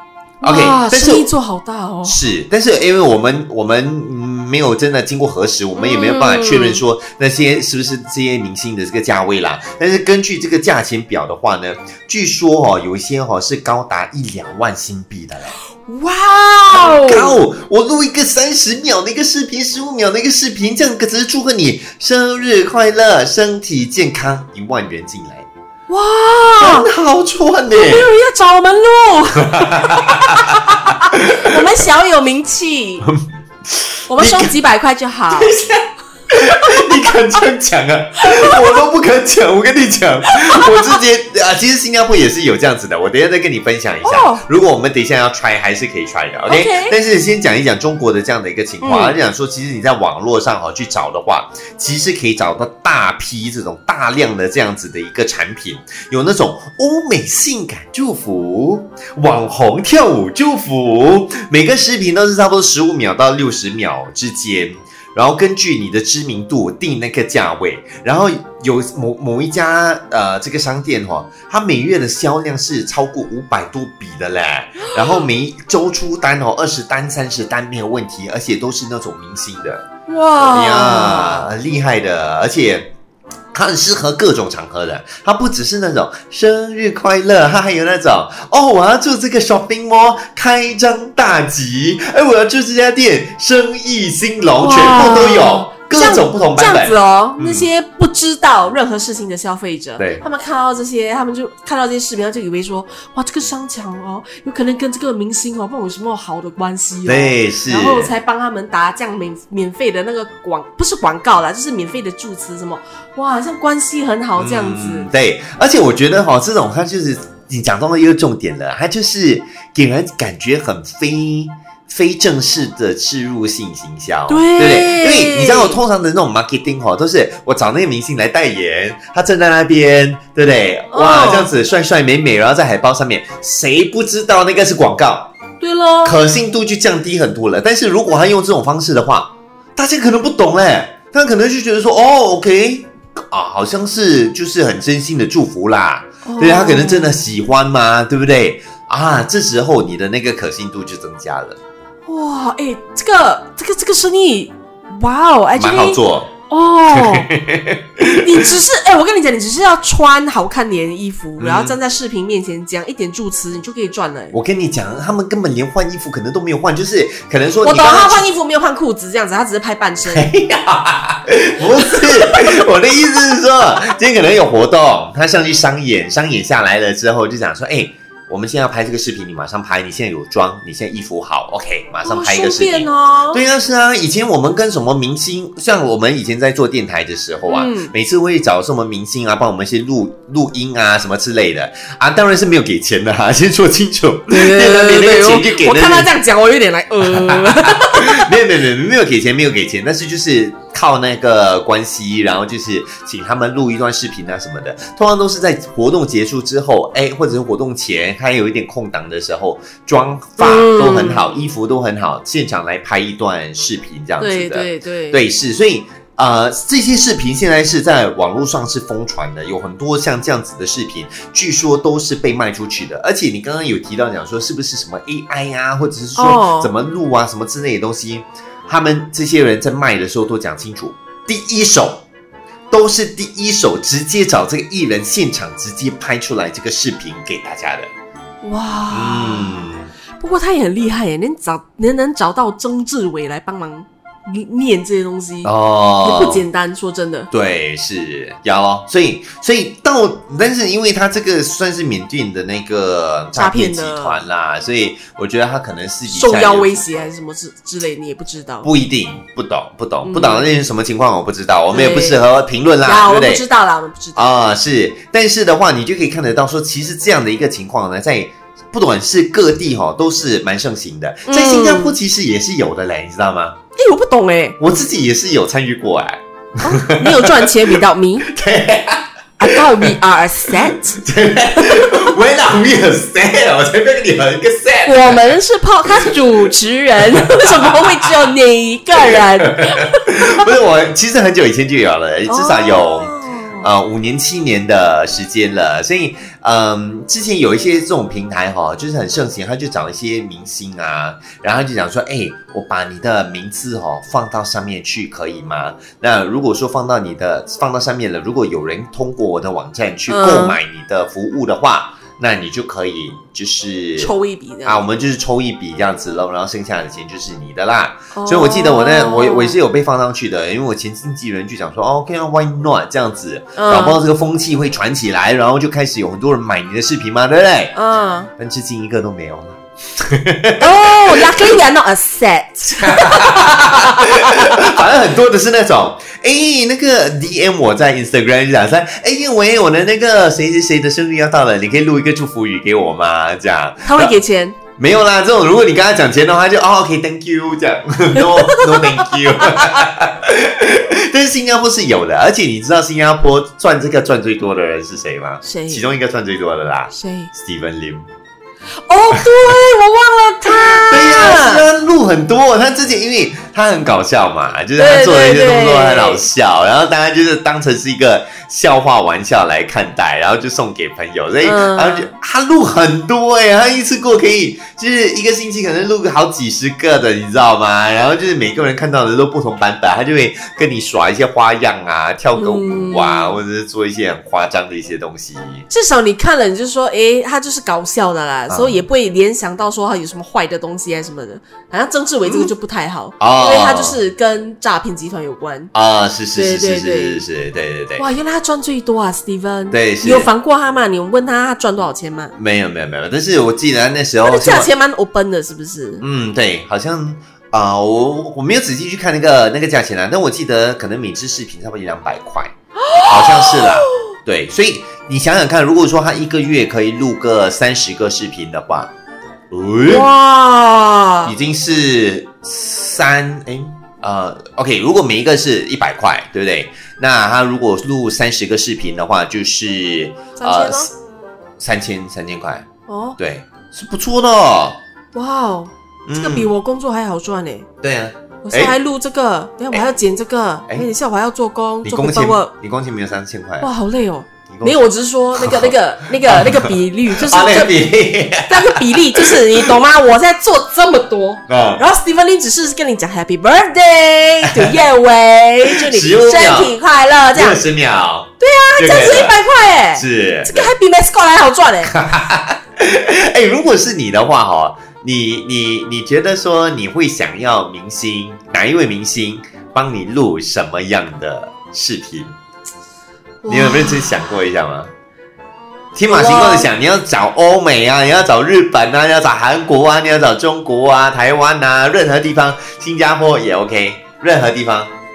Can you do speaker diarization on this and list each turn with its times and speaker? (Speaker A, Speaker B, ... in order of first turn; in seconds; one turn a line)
Speaker A: 0.4-2.2
Speaker B: 0.4-1.3
Speaker B: 2.0-15.6
Speaker A: 5.8-6.8
Speaker A: 15.9-17.4
Speaker B: 16.7-25.5
Speaker A: 25.9-26.9
Speaker B: 26.6-28.1
Speaker A: 27.7-33.1
Speaker B: 29.5-30.6
Speaker B: 31.1-31.6
Speaker B: 33.0-34.5
Speaker A: 34.1-35.5
Speaker B: 35.3-79.8
Speaker A: 38.2-38.8
Speaker A: 40.3-41.0
Speaker A: 44.0-44.4
Speaker A: 46.5-47.0
Speaker A: 48.8-49.2
Speaker A: 80.1-81.5
Speaker B: 80.4-82.9
Speaker B: 83.5-97.7
Speaker A: 94.6-115.1
Speaker B: 100.0-100.2
Speaker B: 107.1-108.1
Speaker B: 114.4-135.3
Speaker A: 124.3-125.8
Speaker A: 130.9-131.5
Speaker A: 135.6-136.2
Speaker B: 136.0-151.6
Speaker A: 146.2-147.2
Speaker A: 152.1-157.3
Speaker B: 155.6-156.3
Speaker B: 156.9-158.5
Speaker A: 158.0-164.3
Speaker B: 161.4-161.8
Speaker B: 164.3-168.3
Speaker A: 167.6-170.3
Speaker B: 170.1-196.1
Speaker A: 182.0-183.4
Speaker A: 187.5-187.9
Speaker A: 194.3-198.3
Speaker B: 197.0-232.1
Speaker A: 210.4-211.2
Speaker A: 214.2-215.2
Speaker A: 226.2-226.7
Speaker B: 232.7-237.9
Speaker A: 238.4-247.3
Speaker B: 238.9-239.9
Speaker B: 245.4-246.4
Speaker B: 247.3-257.0
Speaker A: 253.3-254.2
Speaker A: 256.1-258.7
Speaker B: 258.6-263.4
Speaker A: 260.0-260.5
Speaker A: 261.7-262.2
Speaker A: 262.8-264.4
Speaker B: 264.2-273.6
Speaker A: 271.3-272.0
Speaker A: 273.8-274.6
Speaker B: 274.6-279.9
Speaker A: 276.6-278.3
Speaker A: 279.4-281.0
Speaker B: 280.9-285.2
Speaker A: 281.6-282.1
Speaker A: 284.9-290.0
Speaker B: 287.0-287.8
Speaker B: 289.0-314.1
Speaker A: 292.3-293.7
Speaker A: 310.1-310.6
Speaker A: 314.0-314.8
Speaker B: 314.6-327.8
Speaker A: 318.1-319.6
Speaker A: 323.6-324.0
Speaker A: 327.7-328.3
Speaker B: 328.4-331.5
Speaker A: 330.6-334.6
Speaker B: 332.8-344.1
Speaker A: 343.8-344.6
Speaker B: 344.8-358.1
Speaker A: 348.2-349.9
Speaker A: 355.4-355.9
Speaker A: 356.9-357.3
Speaker A: 358.8-361.6
Speaker B: 360.7-385.7
Speaker A: 364.8-366.2
Speaker A: 371.4-372.1
Speaker A: 382.4-383.4
Speaker A: 385.7-395.7
Speaker B: 388.5-388.8
Speaker B: 393.2-394.0
Speaker B: 395.7-398.1
Speaker A: 396.4-397.2
Speaker A: 398.0-402.3
Speaker B: 399.7-400.3
Speaker B: 402.4-404.7
Speaker A: 404.2-406.1
Speaker B: 406.0-418.9
Speaker A: 412.8-414.1
Speaker B: 419.5-420.1
Speaker A: 419.9-421.4
Speaker B: 421.2-430.9
Speaker A: 430.4-430.9
Speaker B: 431.6-432.6
Speaker A: 432.9-433.2
Speaker B: 433.2-434.8
Speaker A: 435.1-437.7
Speaker B: 436.1-436.5
Speaker B: 437.8-438.8
Speaker A: 438.4-442.5
Speaker B: 441.8-443.7
Speaker A: 443.6-447.8
Speaker B: 444.5-444.8
Speaker B: 445.4-449.7
Speaker A: 448.5-457.6
Speaker B: 451.5-451.9
Speaker B: 454.4-454.7
Speaker B: 455.7-456.8
Speaker B: 457.3-459.4
Speaker A: 458.4-462.0
Speaker B: 459.9-460.7
Speaker B: 461.9-472.3
Speaker A: 473.4-474.2
Speaker B: 473.5-474.9
Speaker B: 475.9-484.9
Speaker A: 476.1-476.7